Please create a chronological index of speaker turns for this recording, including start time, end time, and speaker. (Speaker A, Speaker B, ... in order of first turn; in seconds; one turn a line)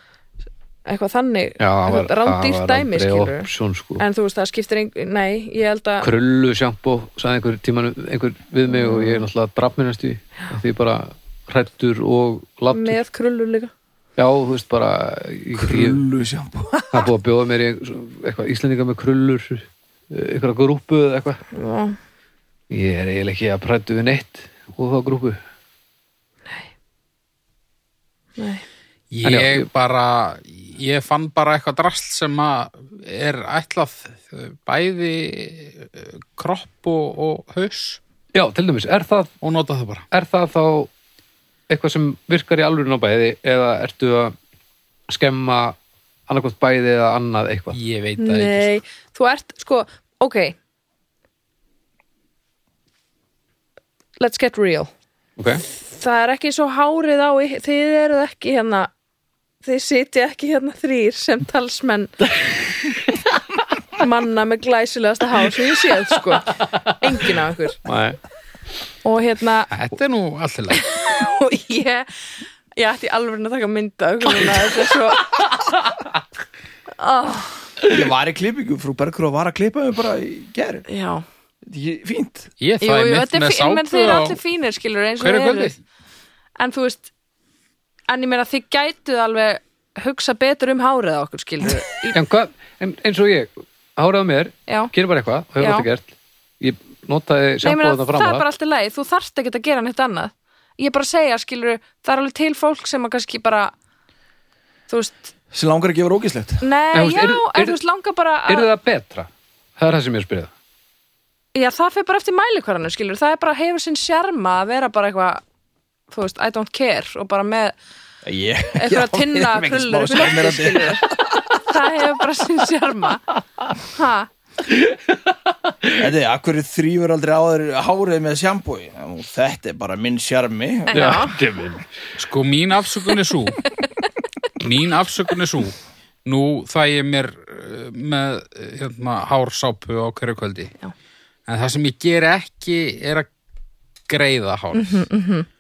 Speaker A: 0.9-6.1
Speaker B: 1.6-4.0
Speaker B: 6.0-13.0
Speaker A: 8.7-9.2
Speaker A: 12.7-13.7
Speaker B: 14.2-16.0
Speaker C: 15.6-17.1
Speaker B: 16.9-21.4
Speaker A: 21.5-22.0
Speaker B: 22.7-25.4
Speaker A: 28.4-28.6
Speaker D: 29.1-38.0
Speaker B: 29.2-29.7
Speaker B: 38.3-39.3
Speaker D: 39.4-40.0
Speaker B: 40.1-40.9
Speaker B: 41.7-44.4
Speaker B: 45.1-45.8
Speaker B: 46.3-47.8
Speaker D: 47.7-48.8
Speaker A: 48.2-50.5
Speaker A: 54.2-54.9
Speaker B: 55.4-55.6
Speaker A: 55.8-58.9
Speaker A: 59.6-62.5
Speaker A: 64.0-67.8
Speaker B: 66.6-67.0
Speaker B: 67.8-68.2
Speaker A: 69.0-69.7
Speaker D: 69.7-70.8
Speaker A: 70.7-75.4
Speaker A: 77.0-77.7
Speaker C: 77.9-80.9
Speaker A: 80.9-81.2
Speaker C: 81.6-82.5
Speaker D: 82.6-84.4
Speaker A: 82.8-85.7
Speaker D: 85.2-85.8
Speaker A: 86.6-87.1
Speaker A: 88.1-92.1
Speaker B: 92.1-98.4
Speaker A: 94.7-94.9
Speaker A: 95.6-95.9
Speaker A: 97.6-103.7
Speaker A: 104.9-105.3
Speaker C: 105.5-106.6
Speaker A: 106.6-108.7
Speaker B: 106.9-107.8
Speaker B: 108.5-110.5
Speaker A: 111.5-115.4
Speaker A: 116.1-117.7
Speaker C: 118.2-121.4
Speaker A: 118.7-124.3
Speaker B: 124.7-126.1
Speaker C: 126.0-131.2
Speaker A: 130.9-131.4
Speaker B: 130.9-131.9
Speaker D: 132.2-133.7
Speaker D: 134.6-140.7
Speaker D: 141.5-143.3
Speaker D: 144.1-145.1
Speaker A: 144.7-145.5